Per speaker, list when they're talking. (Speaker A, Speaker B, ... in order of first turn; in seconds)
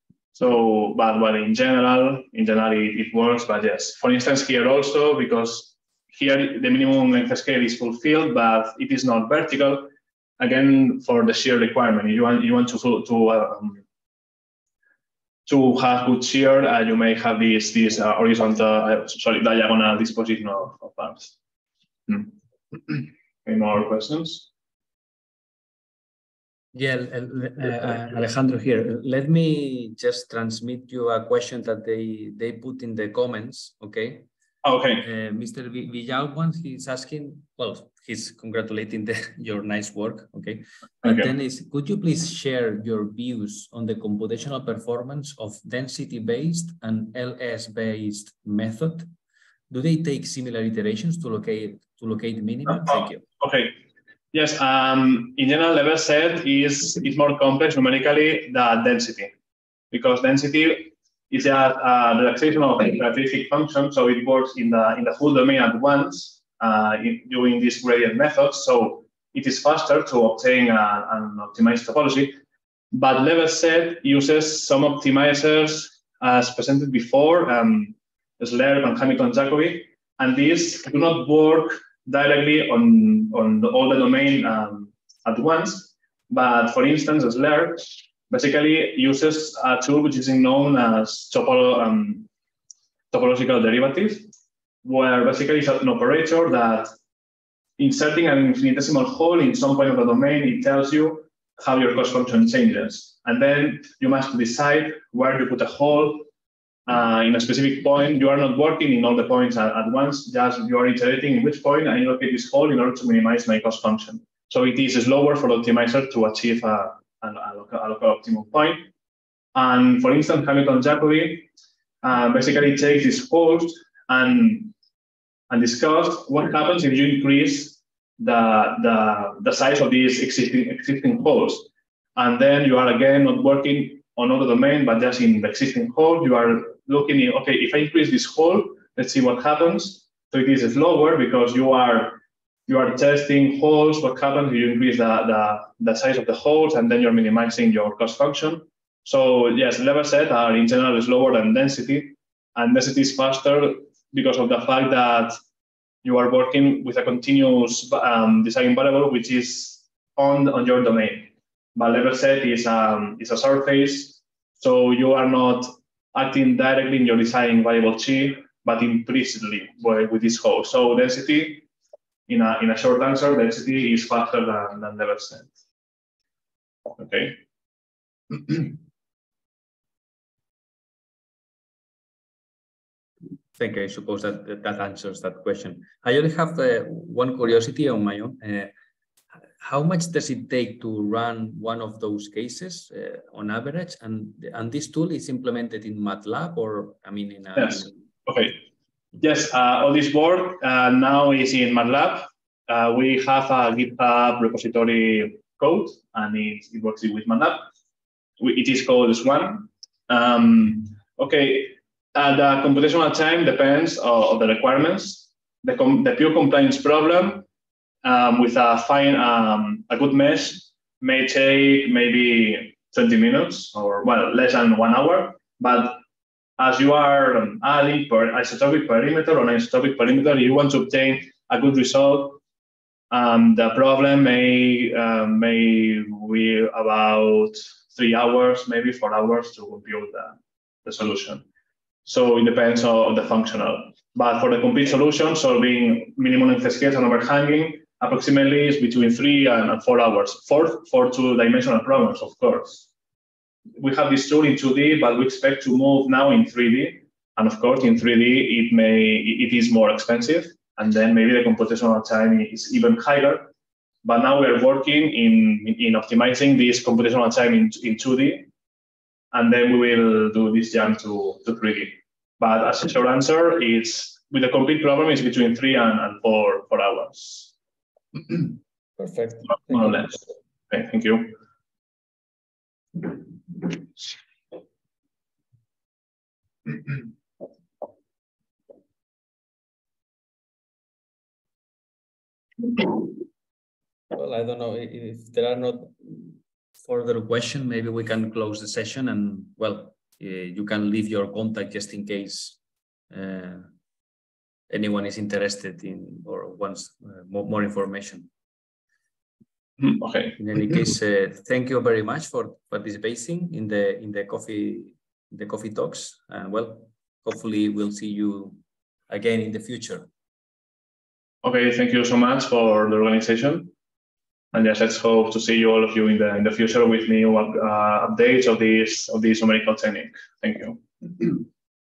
Speaker A: 0.3-13.8, 15.4-21.3, 22.1-24.5, 34.6-35.0, 41.0-41.3, 52.8-53.8, 54.3-59.3, 59.9-72.4, 72.9-92.3, 93.1-94.3, 94.8-96.9, 97.8-106.3, 106.9-118.9, 119.5-121.5, 122.0-124.7, 125.5-155.3, 156.0-171.7, 172.3-175.5, 177.0-177.4, 178.3-178.8, 197.6-198.6, 199.2-207.7, 208.4-217.4, 218.0-226.0, 226.6-232.4, 233.1-241.4, 242.0-252.9, 253.8-263.5, 264.0-268.5, 269.3-277.5, 279.7-281.4, 309.8-310.4, 321.4-323.7, 324.5-331.4
Speaker B: 26.7-34.3, 35.0-49.1, 49.7-53.2, 183.6-188.7, 189.6-197.9, 279.0-280.1, 294.1-302.6, 303.1-303.7, 304.7-308.3, 310.4-318.6, 319.1-320.1